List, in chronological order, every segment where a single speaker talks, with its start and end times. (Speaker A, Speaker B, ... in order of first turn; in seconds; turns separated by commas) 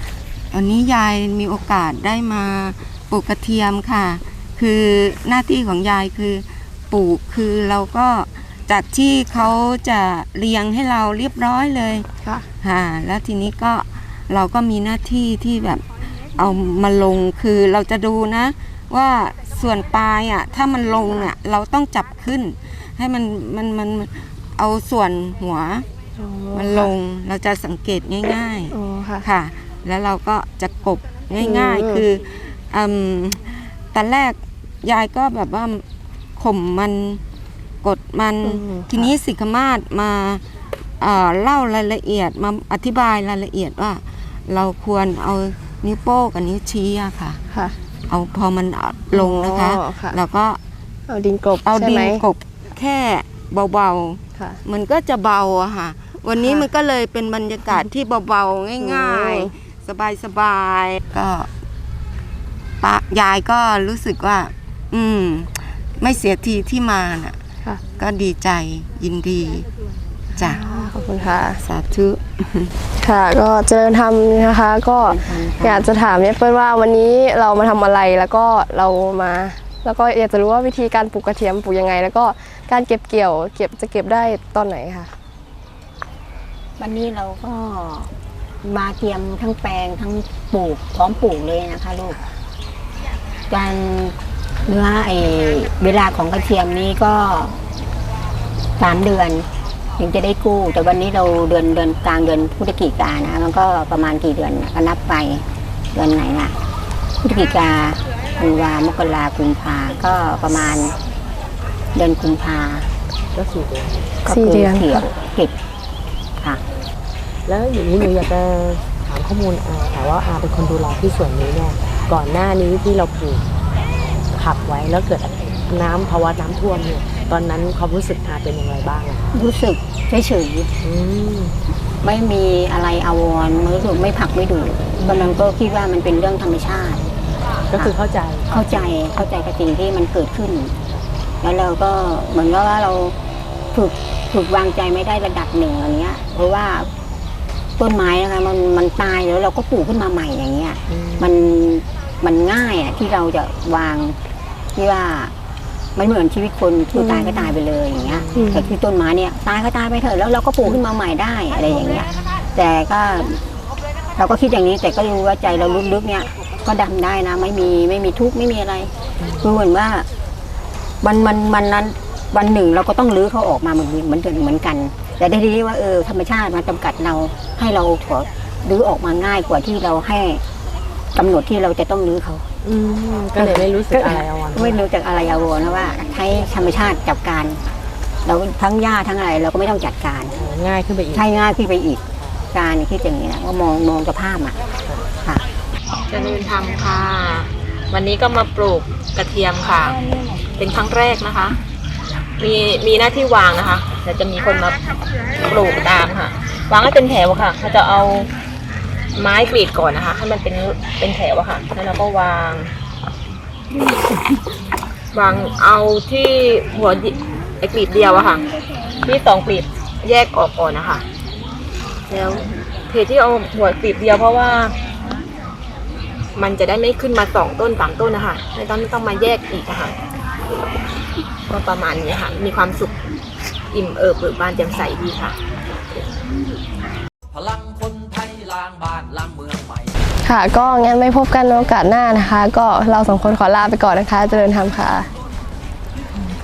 Speaker A: 0.5-12.1, Speaker A: 12.6-25.9, Speaker B: 26.2-26.9, Speaker A: 26.5-35.8, Speaker B: 28.7-29.3, Speaker B: 31.4-32.1, Speaker A: 36.4-37.2, Speaker A: 37.8-40.4, Speaker B: 38.4-39.1, Speaker A: 41.0-47.4, Speaker A: 48.1-50.6, Speaker B: 49.1-50.2, Speaker B: 51.1-52.3, Speaker A: 51.6-61.5, Speaker B: 56.4-56.7, Speaker B: 58.8-59.5, Speaker A: 62.8-67.4, Speaker A: 68.0-69.7, Speaker A: 70.4-70.8, Speaker B: 70.4-71.6, Speaker A: 71.6-72.7, Speaker B: 73.0-85.1, Speaker C: 75.0-75.9, Speaker C: 86.8-88.1, Speaker C: 88.6-92.2, Speaker C: 93.5-97.6, Speaker C: 98.8-106.6, Speaker C: 107.2-111.0, Speaker C: 112.0-112.9, Speaker D: 113.3-114.1, Speaker C: 114.3-115.5, Speaker B: 114.3-115.0, Speaker D: 117.5-123.4, Speaker D: 124.3-129.3, Speaker C: 129.3-130.7, Speaker D: 130.8-131.6, Speaker C: 132.0-137.1, Speaker D: 135.0-135.4, Speaker D: 137.7-138.6, Speaker C: 138.5-140.8, Speaker C: 141.4-143.2, Speaker C: 143.7-146.9, Speaker C: 147.8-154.2, Speaker D: 150.9-151.4, Speaker C: 154.8-155.3, Speaker C: 156.0-163.5, Speaker B: 157.0-157.5, Speaker D: 158.0-158.7, Speaker B: 158.4-158.6, Speaker C: 164.2-170.1, Speaker D: 169.2-169.5, Speaker C: 171.0-180.4, Speaker C: 181.2-182.5, Speaker D: 182.6-184.8, Speaker C: 183.4-187.6, Speaker C: 188.2-190.4, Speaker D: 190.4-191.3, Speaker C: 191.1-194.6, Speaker E: 196.1-201.6, Speaker E: 202.4-204.8, Speaker E: 205.4-208.3, Speaker E: 209.2-212.7, Speaker E: 215.1-218.4, Speaker E: 219.0-221.0, Speaker E: 222.1-224.8, Speaker E: 226.3-229.9, Speaker E: 231.5-232.9, Speaker E: 233.7-235.4, Speaker F: 237.3-239.9, Speaker B: 240.2-245.1